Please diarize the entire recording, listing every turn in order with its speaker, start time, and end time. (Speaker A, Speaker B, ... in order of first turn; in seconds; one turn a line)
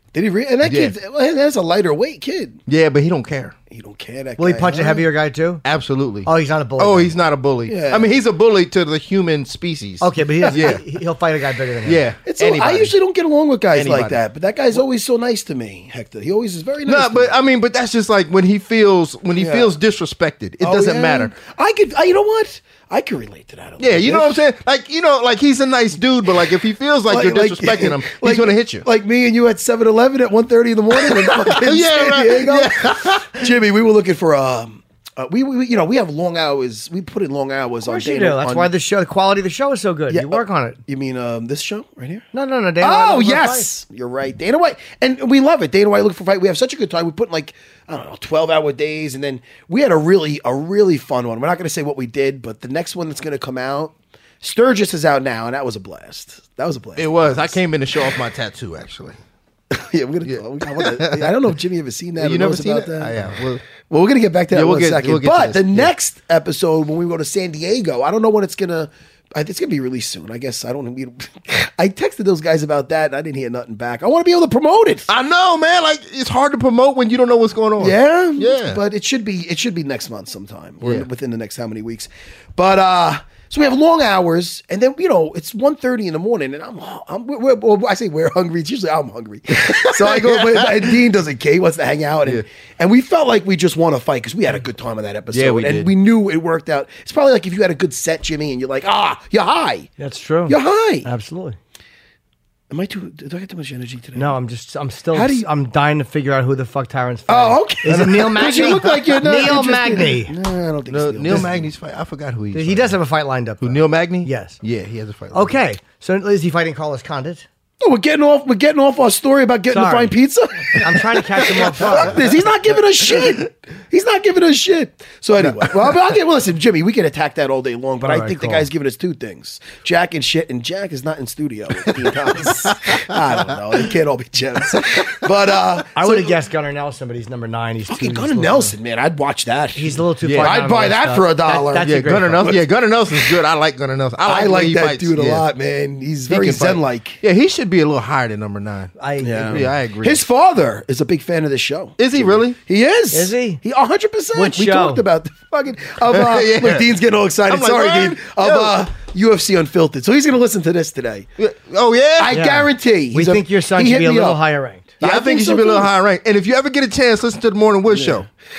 Speaker A: 0.1-2.6
Speaker B: 0.6-0.9
Speaker B: 2.7-3.5
Speaker A: 3.7-5.1
Speaker C: 4.4-5.6
Speaker B: 5.6-10.8
Speaker C: 6.2-7.2
Speaker A: 7.7-8.1
Speaker C: 10.0-12.0
Speaker A: 10.4-10.8
Speaker B: 11.8-12.9
Speaker A: 12.2-17.3
Speaker B: 13.8-14.2
Speaker B: 16.9-21.3
Speaker A: 19.4-19.7
Speaker A: 20.6-24.4
Speaker B: 23.8-28.9
Speaker A: 27.1-38.7
Speaker B: 30.9-33.5
Speaker C: 37.8-40.8
Speaker A: 40.1-42.3
Speaker C: 42.3-43.7
Speaker A: 42.8-57.6
Speaker B: 57.0-59.2
Speaker A: 59.7-75.1
Speaker B: 60.2-61.5
Speaker B: 62.2-63.6
Speaker B: 64.5-65.9
Speaker B: 75.1-78.8
Speaker A: 77.8-99.9
Speaker B: 80.8-81.1
Speaker B: 89.6-91.0
Speaker B: 95.3-95.9
Speaker C: 100.0-101.6
Speaker A: 100.5-101.1
Speaker A: 102.7-104.3
Speaker C: 104.2-110.3
Speaker A: 105.1-105.5
Speaker A: 107.3-111.7
Speaker B: 107.9-110.0
Speaker B: 110.9-113.0
Speaker C: 112.5-114.6
Speaker B: 113.6-115.6
Speaker C: 115.3-117.5
Speaker A: 117.8-136.3
Speaker C: 119.7-120.2
Speaker C: 120.7-122.2
Speaker C: 128.1-128.7
Speaker B: 132.9-133.8
Speaker B: 134.8-135.1
Speaker C: 135.9-138.8
Speaker A: 137.9-142.6
Speaker C: 139.7-142.5
Speaker B: 140.2-140.6
Speaker B: 141.8-145.5
Speaker A: 144.2-147.2
Speaker B: 146.3-148.9
Speaker C: 149.0-149.6
Speaker A: 149.2-161.3
Speaker B: 149.5-150.2
Speaker B: 152.0-152.6
Speaker C: 153.1-153.6
Speaker C: 154.3-155.1
Speaker B: 156.0-156.9
Speaker B: 157.5-158.9
Speaker B: 161.4-162.4
Speaker A: 162.2-164.4
Speaker C: 162.3-164.9
Speaker A: 165.0-165.9
Speaker B: 165.0-168.3
Speaker A: 167.9-168.2